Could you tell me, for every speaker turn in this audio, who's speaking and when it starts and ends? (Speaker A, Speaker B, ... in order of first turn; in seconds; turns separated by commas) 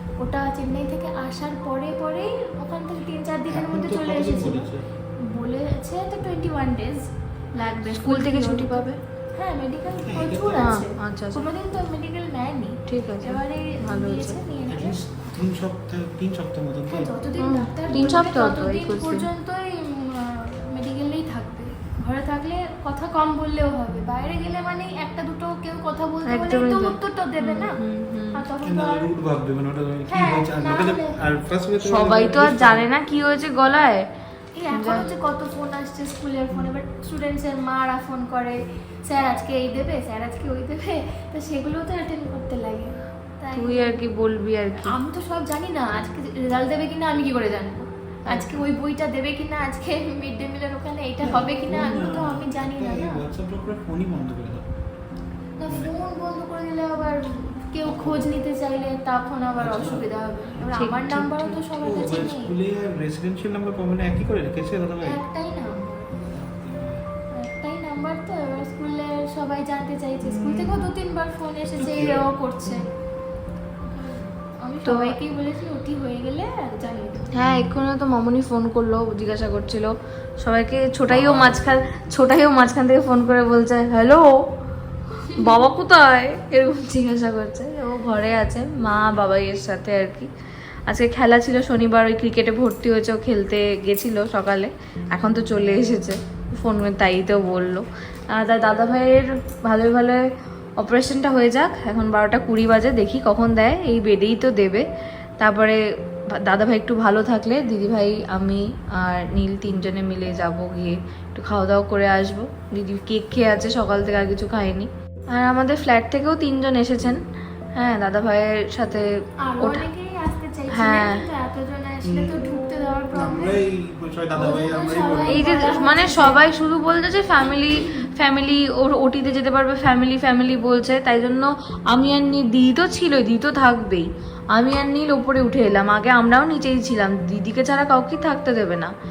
Speaker A: 0.2-15.0, Speaker B: 3.5-4.8, Speaker C: 7.9-9.0, Speaker B: 10.1-10.7, Speaker C: 10.6-11.5, Speaker C: 12.9-14.4, Speaker B: 14.7-17.1, Speaker A: 16.9-27.8, Speaker C: 17.4-19.3, Speaker B: 17.9-18.1, Speaker C: 26.3-28.4, Speaker A: 28.3-29.1, Speaker B: 28.6-32.9, Speaker A: 30.1-31.2, Speaker C: 31.8-34.1, Speaker A: 34.5-44.0, Speaker C: 34.7-35.1, Speaker C: 43.5-45.0, Speaker A: 44.8-53.2, Speaker C: 48.3-48.6, Speaker B: 51.2-54.6, Speaker A: 55.6-62.5, Speaker B: 57.9-58.3, Speaker B: 59.6-60.0, Speaker C: 60.7-61.6, Speaker B: 61.8-65.2, Speaker A: 65.0-66.2, Speaker B: 66.3-67.0, Speaker A: 67.3-72.9, Speaker B: 70.2-70.9, Speaker B: 71.8-72.2, Speaker A: 73.8-77.2, Speaker C: 74.8-75.2, Speaker C: 77.4-84.2, Speaker B: 81.1-81.6, Speaker C: 85.4-90.3, Speaker C: 90.9-100.2, Speaker C: 100.8-104.8, Speaker C: 105.4-105.8, Speaker C: 106.4-117.2, Speaker C: 117.8-119.9, Speaker A: 119.4-123.7, Speaker C: 120.7-121.2, Speaker B: 122.0-122.5, Speaker B: 123.1-125.6, Speaker A: 124.3-126.4, Speaker C: 125.3-138.9